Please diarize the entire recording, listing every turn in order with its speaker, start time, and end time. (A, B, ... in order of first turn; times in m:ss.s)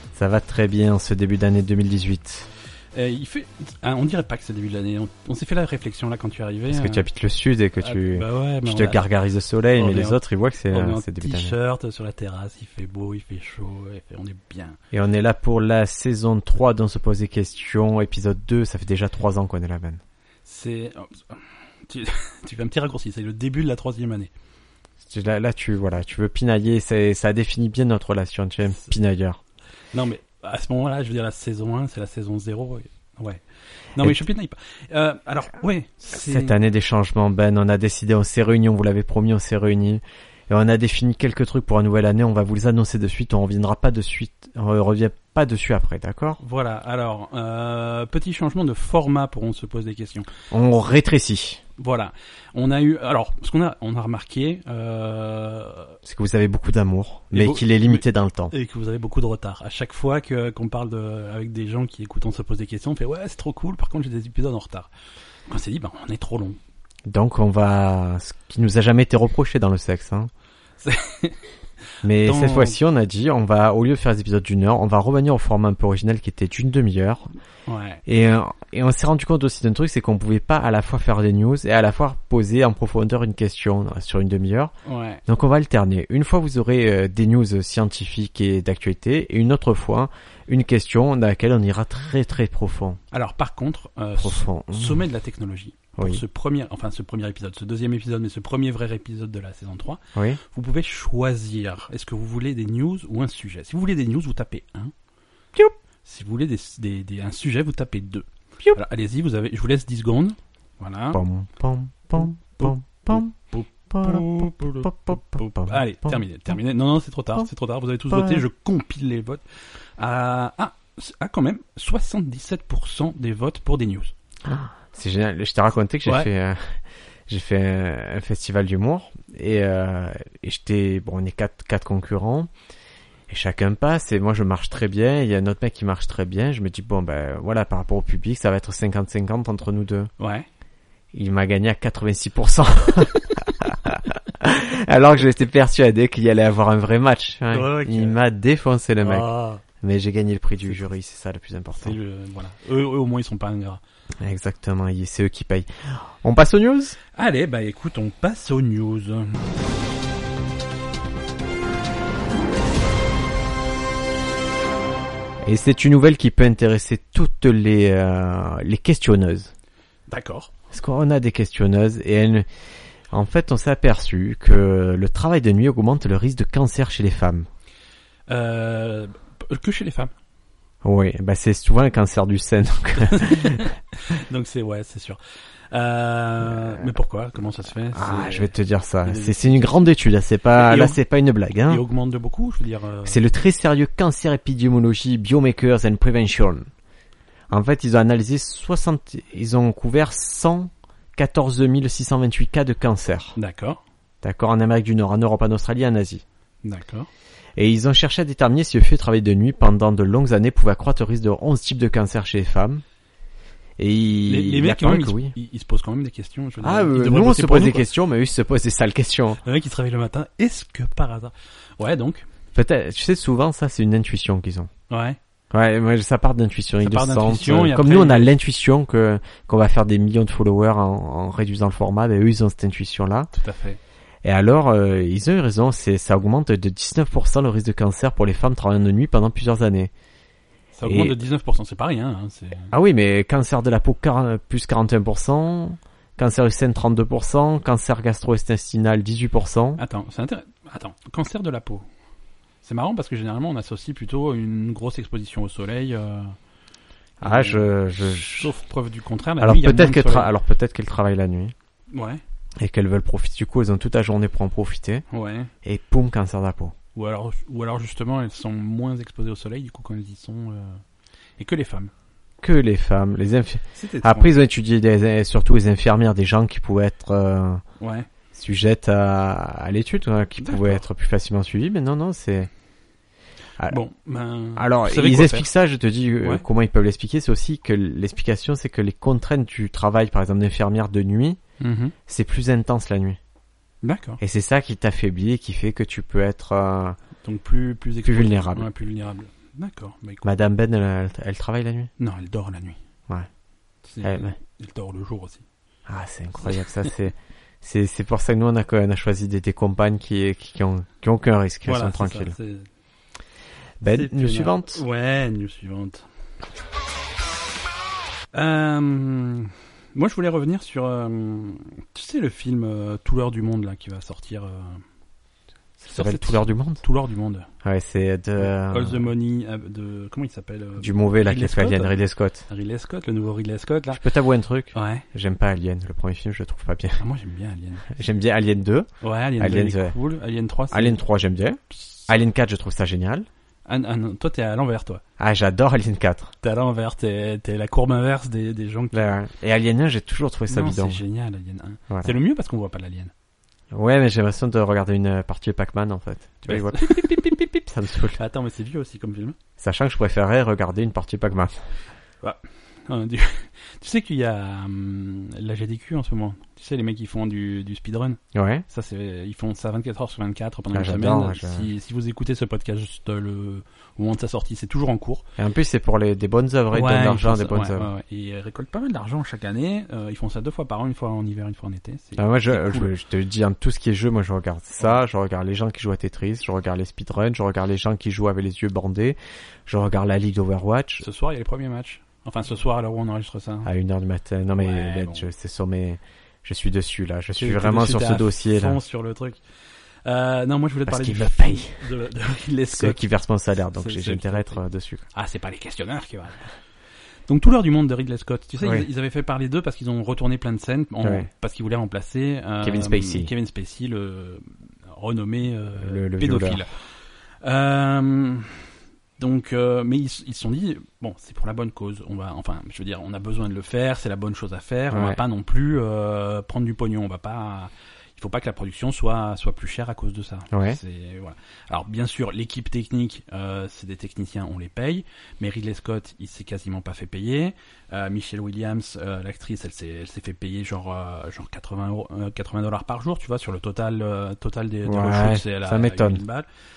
0:00.1-0:02.5 A
0:02.9-0:07.0 B
0:06.7-0:11.6 A
0:07.8-0:09.1 B
0:09.8-0:10.2 B
0:10.7-0:14.8 B
0:14.9-0:20.0 A
0:20.5-0:24.3 B
0:25.0-0:29.4 A
0:29.9-0:33.4 B
0:34.0-0:36.6 B
0:36.1-0:46.4 A
0:46.4-0:50.3 B
0:50.5-0:51.6 A
0:51.8-0:56.0 B
0:56.0-0:58.5 A
0:57.3-1:04.9 B
1:05.5-1:06.6 B
1:07.1-1:10.3 A
1:10.8-1:11.5 B
1:12.0-1:17.2 A
1:12.2-1:12.8 B
1:17.7-1:18.0 B
1:18.1-1:24.7 A
1:24.8-1:25.2 B
1:25.3-1:33.0 A
1:33.1-1:44.9 B
1:34.2-1:35.0 A
1:36.0-1:36.2 A
1:40.2-1:40.4 A
1:46.0-1:51.2 B
1:51.1-1:56.2 A
1:52.6-1:59.4 B
1:58.1-1:58.4 A
2:00.0-2:04.1 B
2:04.4-2:12.5 A
2:13.3-2:20.1 A
2:20.2-2:20.5 B
2:21.1-2:29.3 A
2:27.5-2:28.2 B
2:29.0-2:29.6 B
2:29.8-2:32.0 A
2:31.8-2:33.8 B
2:34.2-2:37.0 A
2:37.2-2:39.5 B
2:45.4-2:49.5 A
2:50.1-2:50.5 B
2:50.7-2:52.5 A
2:53.1-2:57.5 A
2:58.3-3:00.1 B
3:00.8-3:03.7 A
3:03.0-3:05.2 B
3:05.7-3:09.8 B
3:07.9-3:11.8 A
3:10.5-3:11.0 B
3:11.7-3:13.2 B
3:13.0-3:16.7 A
3:17.5-3:23.4 A
3:23.4-3:23.8 B
3:24.2-3:26.2 A
3:26.6-3:27.1 B
3:27.6-3:32.8 A
3:33.8-3:35.3 A
3:34.3-3:37.9 B
3:36.6-3:39.4 A
3:39.4-3:42.3 B
3:42.5-3:44.7 A
3:44.9-3:45.2 B
3:45.5-3:53.3 A
3:46.8-3:48.3 B
3:53.3-3:53.8 B
3:54.2-3:59.9 A
4:00.8-4:02.7 B
4:00.9-4:01.2 A
4:02.7-4:09.8 A
4:09.8-4:11.9 B
4:12.6-4:16.4 B
4:17.2-4:18.5 A
4:17.2-4:20.3 B
4:19.4-4:21.5 A
4:21.9-4:22.2 B
4:22.6-4:25.0 A
4:25.1-4:25.5 B
4:25.6-4:26.8 A
4:27.0-4:30.8 B
4:31.4-4:31.9 B
4:32.4-4:37.6 A
4:33.8-4:34.3 B
4:37.8-4:38.1 B
4:38.3-4:42.5 A
4:40.4-4:40.8 B
4:43.7-4:45.5 B
4:44.6-4:51.4 A
4:51.6-4:52.0 B
4:52.1-4:53.2 A
4:53.8-4:54.2 B
4:54.2-4:57.0 A
4:57.2-5:00.3 B
4:58.0-4:58.7 A
5:00.2-5:01.9 A
5:02.0-5:02.8 B
5:03.9-5:05.4 B
5:04.0-5:04.4 A
5:05.9-5:12.4 A
5:11.6-5:12.7 B
5:13.8-5:14.8 A
5:13.8-5:16.1 B
5:18.3-5:24.8 B
5:25.8-5:26.8 A
5:25.9-5:27.5 B
5:27.6-5:29.1 A
5:28.4-5:34.0 B
5:30.8-5:32.5 A
5:33.9-5:37.0 A
5:34.7-5:35.1 B
5:37.0-5:38.0 B
5:37.9-5:38.9 A
5:39.0-5:41.0 B
5:39.4-5:39.9 A
5:40.7-5:43.3 A
5:43.7-5:45.0 B
5:45.2-5:46.3 A
5:46.4-5:49.1 B
5:48.9-5:51.0 A
5:50.5-5:53.1 B
5:51.9-5:52.2 A
5:53.7-5:58.2 A
5:56.5-5:57.3 B
5:58.2-5:59.4 B
5:59.6-6:01.5 A
6:02.2-6:15.2 B
6:08.3-6:08.6 A
6:10.7-6:11.7 A
6:15.4-6:17.9 A
6:16.7-6:22.9 B
6:22.2-6:31.0 A
6:31.0-6:33.7 B
6:33.6-6:38.8 A
6:34.6-6:35.3 B
6:37.4-6:39.4 B
6:40.0-6:43.0 B
6:40.9-6:41.8 A
6:42.8-6:45.0 A
6:43.7-6:44.6 B
6:45.1-6:46.5 B
6:47.3-6:56.7 B
6:51.0-6:51.3 A
6:52.6-6:53.3 A
6:55.8-6:56.6 A
6:57.4-6:58.7 B
6:59.2-7:26.5 B
7:04.9-7:05.2 A
7:10.5-7:10.8 A
7:24.8-7:26.2 A